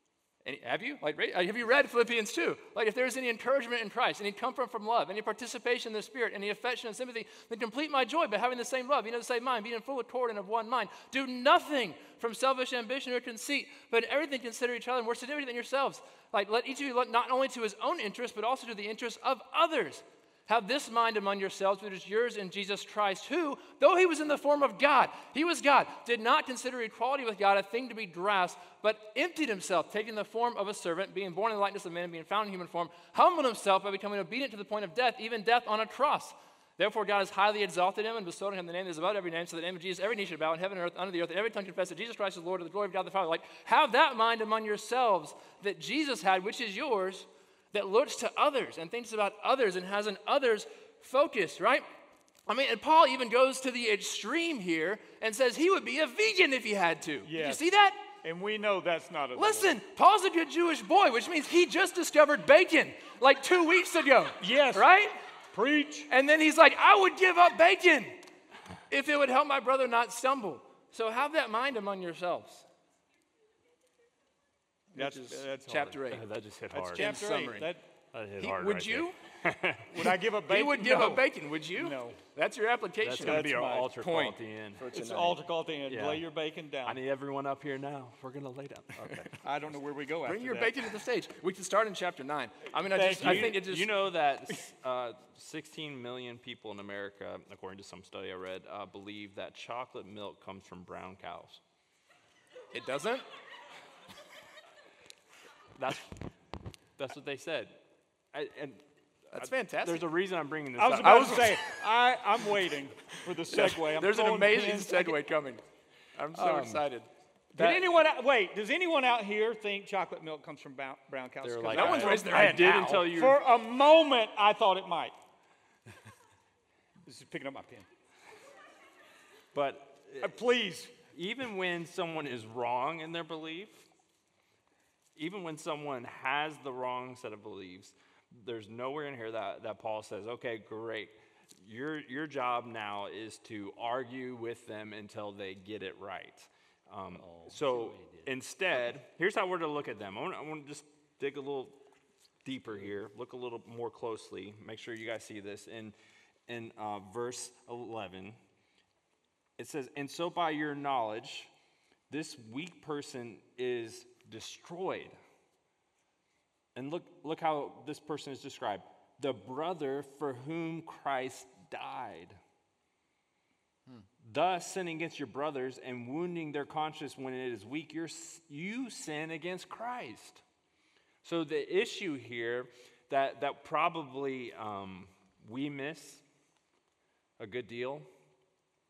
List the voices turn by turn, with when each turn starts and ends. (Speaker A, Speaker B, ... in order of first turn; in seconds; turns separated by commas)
Speaker A: 0.4-51.9, Speaker A: 52.5-58.1, Speaker B: 57.2-59.8, Speaker A: 59.4-65.2, Speaker B: 64.4-64.9, Speaker B: 65.5-66.1, Speaker A: 66.1-68.2, Speaker A: 68.9-72.7, Speaker A: 74.9-76.2, Speaker B: 75.0-76.0, Speaker C: 76.1-77.1, Speaker B: 76.7-77.8, Speaker A: 77.0-77.7, Speaker C: 78.1-80.1, Speaker A: 78.4-79.2, Speaker B: 79.9-82.2, Speaker A: 80.5-85.4, Speaker C: 83.0-84.8, Speaker B: 83.2-83.9, Speaker B: 84.9-87.0, Speaker C: 85.9-86.2, Speaker C: 86.8-89.4, Speaker B: 89.4-90.8, Speaker A: 90.3-93.9, Speaker B: 92.9-93.6, Speaker C: 93.2-101.6, Speaker A: 102.7-103.3, Speaker C: 105.8-106.3, Speaker C: 107.0-107.8, Speaker C: 108.3-111.6, Speaker A: 109.3-110.1, Speaker B: 110.8-115.2, Speaker A: 111.0-111.6, Speaker A: 113.5-115.6, Speaker A: 116.2-117.8, Speaker C: 116.3-116.9, Speaker B: 117.5-125.2, Speaker C: 121.4-123.4, Speaker A: 121.7-123.1, Speaker B: 127.1-127.9, Speaker C: 129.5-130.3, Speaker B: 130.2-130.9, Speaker C: 131.0-133.9, Speaker C: 135.2-151.8, Speaker B: 147.2-148.3, Speaker C: 152.4-155.9, Speaker C: 156.5-158.4, Speaker C: 159.6-161.5, Speaker C: 162.1-165.2, Speaker C: 166.8-172.4, Speaker C: 174.2-180.4, Speaker C: 181.2-186.2, Speaker C: 187.4-188.1